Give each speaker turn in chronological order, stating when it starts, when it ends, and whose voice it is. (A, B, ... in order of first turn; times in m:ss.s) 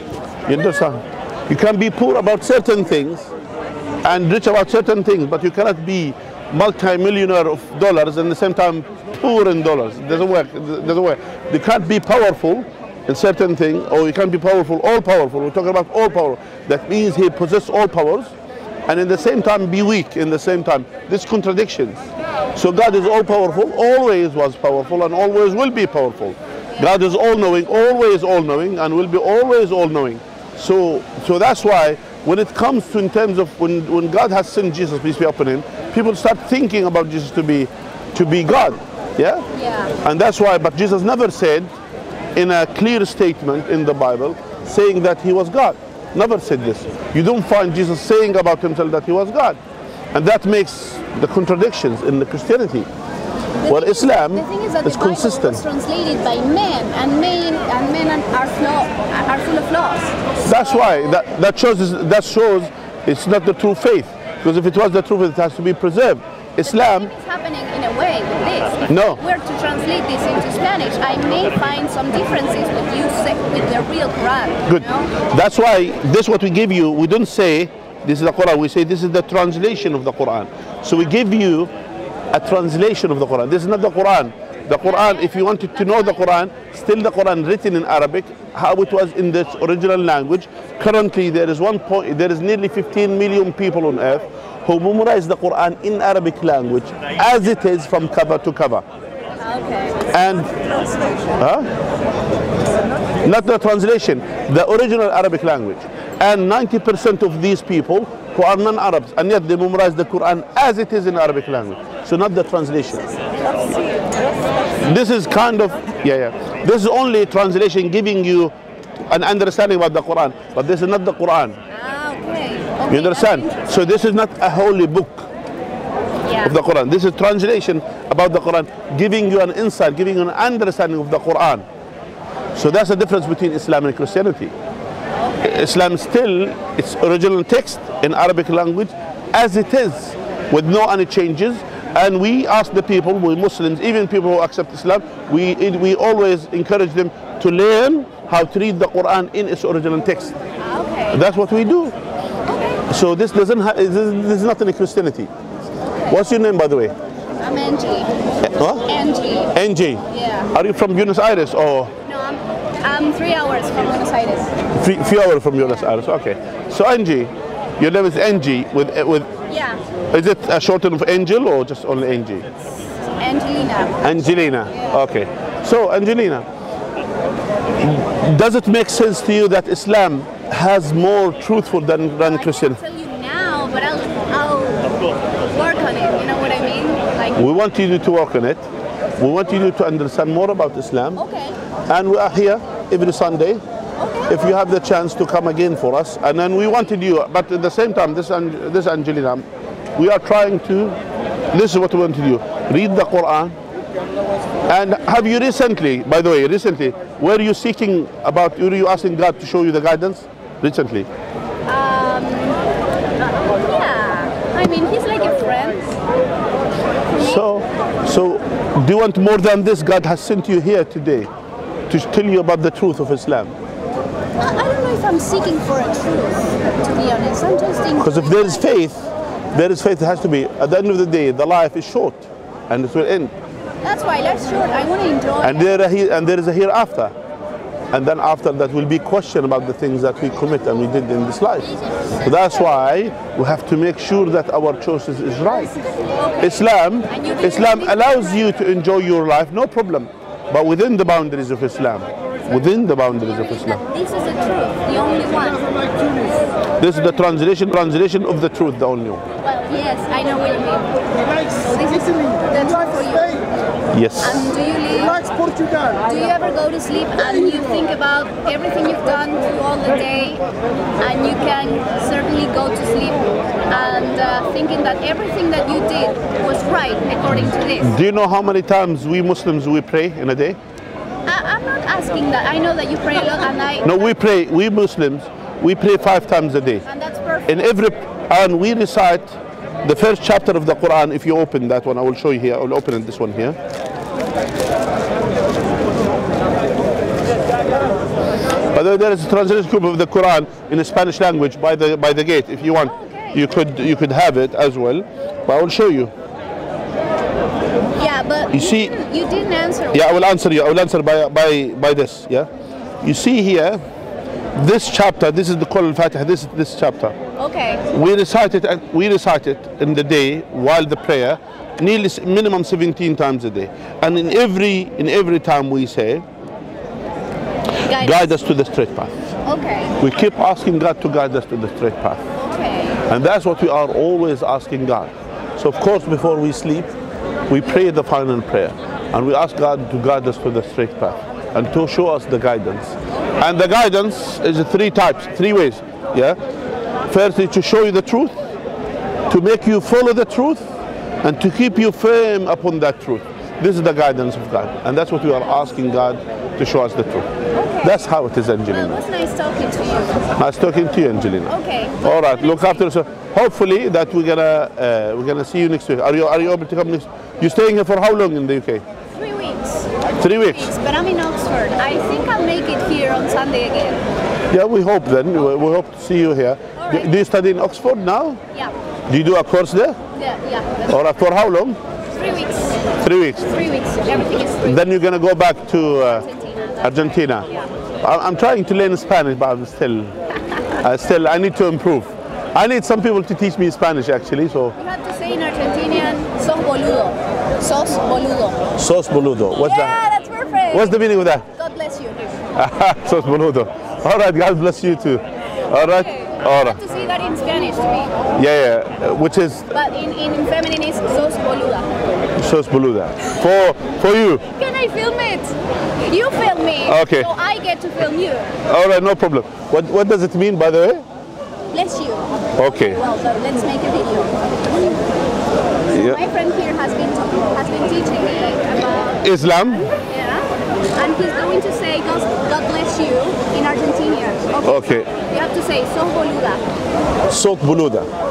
0:00.5-0:03.3 A
0:04.0-0:18.3 A
0:18.9-0:22.0 A
0:22.6-0:39.4 A
0:39.5-0:40.0 B
0:40.0-0:41.7 A
0:42.4-0:49.6 A
0:50.1-0:52.9 A
0:53.6-1:01.0 B
0:53.7-0:55.6 A
1:00.4-1:07.1 A
1:06.6-1:15.2 B
1:08.9-1:09.2 A
1:14.7-1:21.7 A
1:22.3-1:38.8 A
1:24.8-1:26.2 B
1:39.4-1:41.2 B
1:40.1-1:40.5 A
1:41.4-1:41.7 A
1:43.2-1:53.1 A
1:53.5-1:54.0 B
1:54.8-1:58.5 A
1:59.1-2:01.6 A
2:01.7-2:03.7 B
2:02.9-2:05.3 A
2:06.2-2:06.6 B
2:06.4-2:11.6 A
2:12.6-2:14.5 A
2:15.2-2:15.7 B
2:15.4-2:30.4 A
2:30.6-2:31.2 B
2:31.1-2:31.9 A
2:32.5-2:32.8 B
2:32.9-2:35.3 A
2:35.8-2:36.2 B
2:36.1-2:36.9 A
2:37.4-2:38.1 B
2:38.4-2:38.9 A
2:38.8-2:39.5 B
2:39.5-2:41.9 A
2:40.1-2:40.5 B
2:42.0-2:44.5 B
2:44.7-2:49.3 A
2:49.5-2:49.8 B
2:50.1-2:52.5 A
2:53.2-2:55.0 B
2:54.0-2:56.5 A
2:57.8-3:02.8 A
3:02.2-3:07.4 B
3:07.4-3:08.6 A
3:09.2-3:11.2 A
3:11.2-3:11.6 B
3:11.9-3:13.6 A
3:14.0-3:14.4 B
3:14.3-3:19.4 A
3:20.0-3:21.0 A
3:21.5-3:23.6 A
3:24.7-3:31.1 A
3:31.7-3:32.6 B
3:33.2-3:36.0 B
3:37.2-3:41.3 A
3:41.9-3:43.5 A
3:44.4-3:48.7 B
3:48.0-3:53.3 A
3:53.8-3:55.8 B
3:55.4-3:57.1 A
3:57.9-4:05.7 A
4:05.9-4:08.6 B
4:06.4-4:13.8 A
4:13.2-4:16.2 B
4:16.8-4:19.2 A
4:19.4-4:23.4 B
4:23.9-4:24.5 A
4:24.2-4:25.4 B
4:26.0-4:30.4 B
4:31.0-4:38.0 B
4:37.8-4:40.6 A
4:41.3-4:44.0 B
4:43.8-4:46.8 A
4:46.9-4:47.7 B
4:47.5-4:53.6 A
4:58.7-5:06.1 A
5:02.8-5:03.5 B
5:08.0-5:10.2 B
5:08.5-5:09.0 A
5:09.9-5:12.5 A
5:13.0-5:13.8 A
5:14.5-5:17.2 A
5:17.4-5:17.8 B
5:17.9-5:26.2 A
5:27.8-5:28.3 B
5:27.9-5:29.1 A
5:29.4-5:30.0 B
5:30.0-5:32.2 A
5:32.4-5:33.0 B
5:33.1-5:36.9 A
5:37.5-5:46.4 A
5:47.1-5:48.3 A
5:49.3-5:50.6 A
5:51.2-5:57.3 A
5:57.6-5:58.0 B
5:57.8-5:59.0 A
5:58.7-6:00.3 B
6:00.4-6:08.8 A
6:01.5-6:02.8 B
6:09.1-6:14.0 B
6:10.2-6:10.7 A
6:14.5-6:18.4 A
6:16.8-6:17.2 B
6:19.1-6:20.0 A
6:20.1-6:21.0 B
6:20.9-6:21.8 A
6:22.1-6:22.9 B
6:23.0-6:23.5 A
6:23.5-6:24.9 B
6:24.6-6:26.2 A
6:26.0-6:27.7 B
6:26.8-6:27.5 A
6:28.0-6:30.1 A
6:30.8-6:34.8 A
6:34.8-6:38.6 B
6:38.8-6:40.0 A
6:39.5-6:42.3 B
6:40.7-6:41.4 A
6:42.6-6:46.8 A
6:45.8-6:48.1 B
6:48.4-6:49.7 A
6:49.7-6:51.9 B
6:52.4-6:54.4 A
6:54.5-6:58.6 B
6:56.8-6:57.3 A
6:58.7-7:01.0 A
7:01.7-7:05.0 B
7:02.6-7:03.0 A
7:05.9-7:16.6 B
7:05.9-7:06.2 A
7:09.2-7:09.9 A
7:14.6-7:15.1 A
7:17.3-7:18.1 A